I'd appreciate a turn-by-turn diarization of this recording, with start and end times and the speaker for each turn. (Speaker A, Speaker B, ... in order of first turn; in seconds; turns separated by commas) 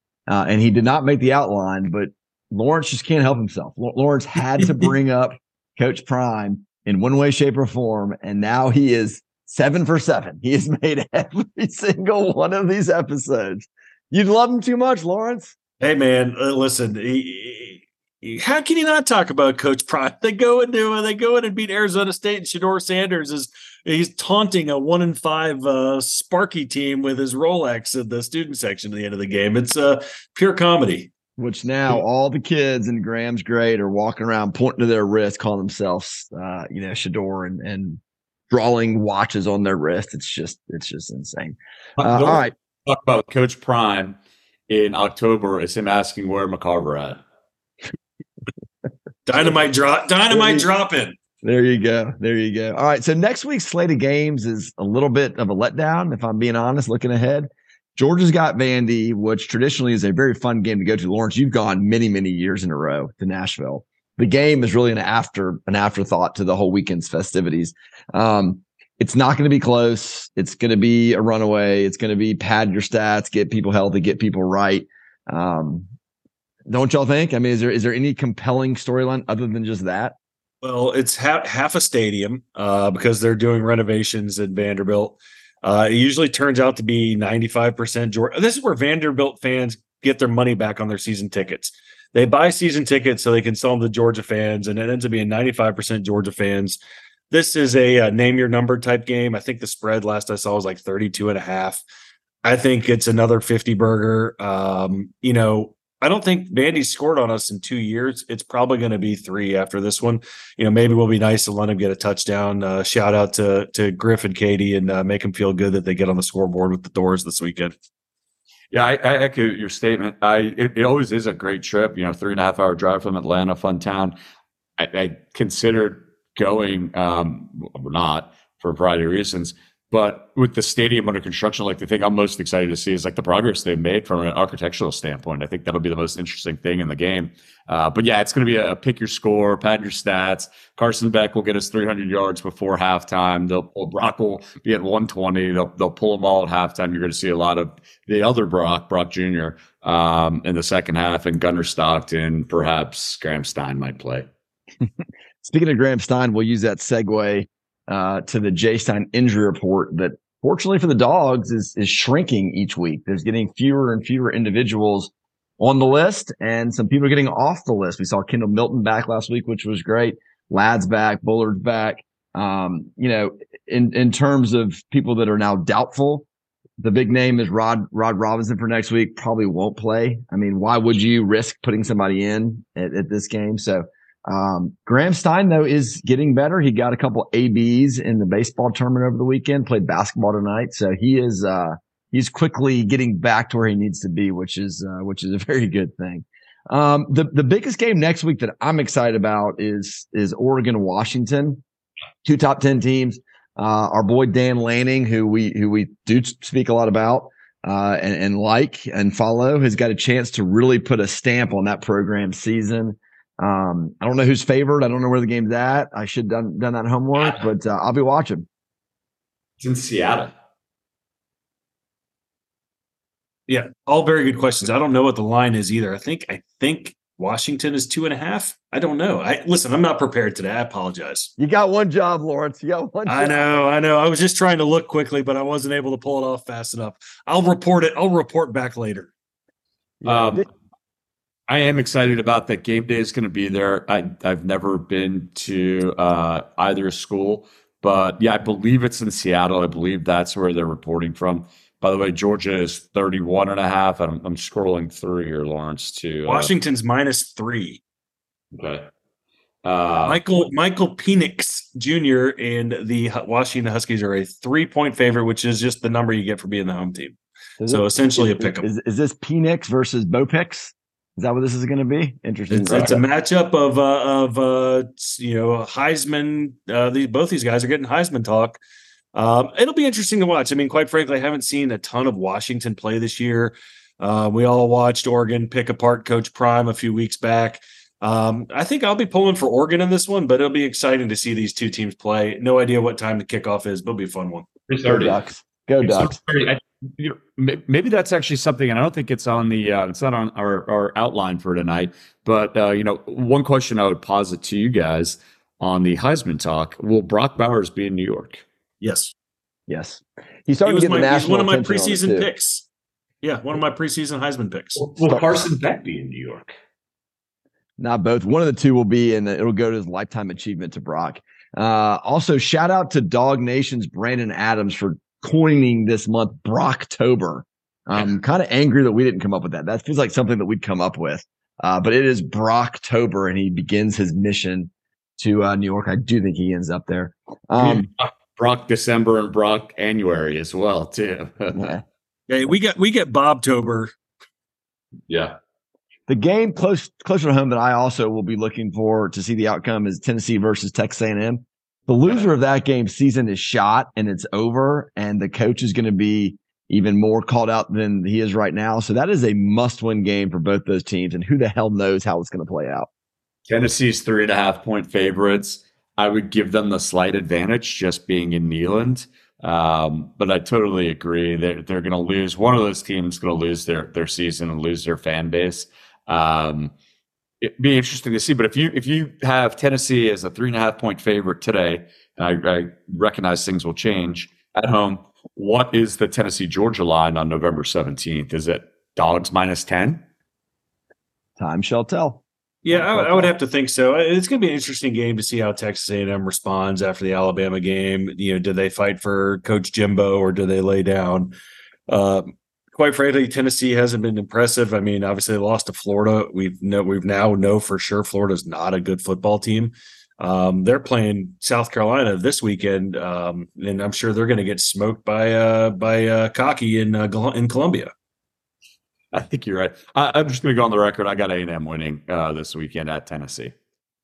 Speaker A: 0.3-15.5, Speaker B: 15.8-31.1, Speaker A: 31.4-42.5, Speaker C: 42.0-44.2, Speaker C: 44.7-47.2, Speaker B: 49.3-51.2, Speaker A: 50.3-50.7, Speaker A: 51.4-75.9, Speaker A: 76.7-80.2, Speaker B: 80.6-96.8, Speaker B: 97.3-101.8, Speaker B: 102.5-117.7, Speaker C: 118.7-124.2, Speaker C: 124.8-154.3, Speaker A: 155.4-176.3, Speaker A: 176.8-201.6, Speaker A: 202.2-218.5, Speaker C: 219.6-220.3, Speaker B: 223.5-231.3, Speaker A: 231.4-233.5, Speaker B: 233.1-239.1, Speaker A: 240.0-240.5, Speaker C: 240.1-240.5, Speaker C: 241.5-256.5, Speaker B: 256.3-257.8, Speaker C: 258.5-258.9, Speaker C: 259.6-260.2, Speaker B: 260.0-267.2, Speaker A: 267.6-273.0, Speaker B: 267.7-268.7, Speaker B: 272.5-278.6, Speaker B: 279.1-294.5, Speaker C: 294.7-295.2, Speaker A: 294.9-296.1, Speaker C: 295.8-308.4, Speaker B: 308.8-309.1, Speaker A: 309.7-312.3, Speaker B: 310.6-312.7, Speaker B: 313.2-314.8, Speaker C: 314.8-316.5, Speaker A: 315.0-315.4, Speaker A: 317.8-337.9, Speaker C: 337.6-341.8, Speaker A: 341.5-341.8, Speaker B: 342.3-343.9, Speaker C: 345.1-345.4, Speaker A: 346.1-362.9, Speaker C: 363.5-376.7, Speaker C: 377.4-390.0, Speaker A: 391.4-393.3, Speaker B: 392.6-401.3, Speaker B: 401.9-417.9, Speaker C: 419.1-423.5